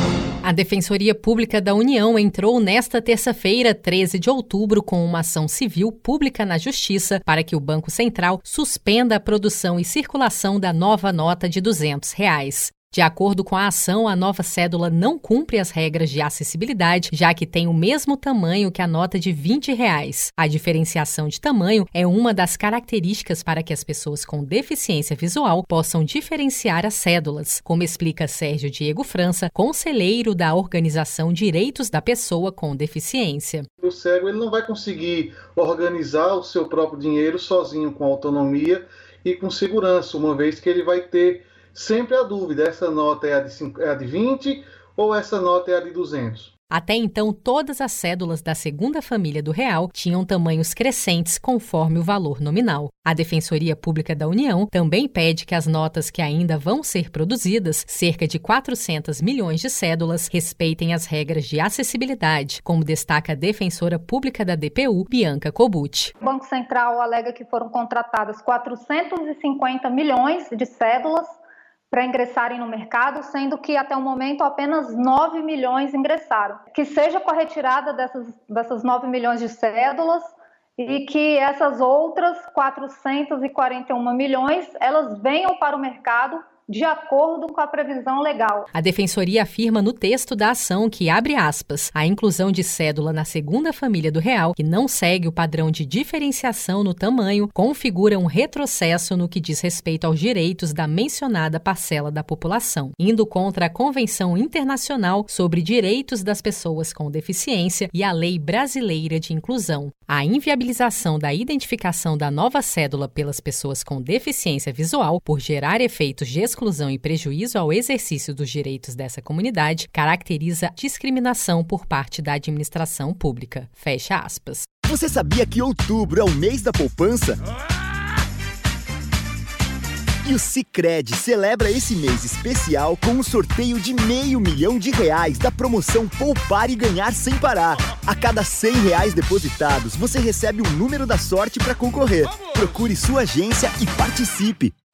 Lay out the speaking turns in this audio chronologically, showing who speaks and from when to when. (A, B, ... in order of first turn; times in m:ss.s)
0:00.4-0:33.7 A
0:33.8-0:46.5 B
0:46.7-1:06.1 A
1:06.2-1:11.4 C
1:11.9-1:28.7 C
1:28.7-2:04.7 A
2:04.8-2:07.4 D
2:10.2-2:24.7 D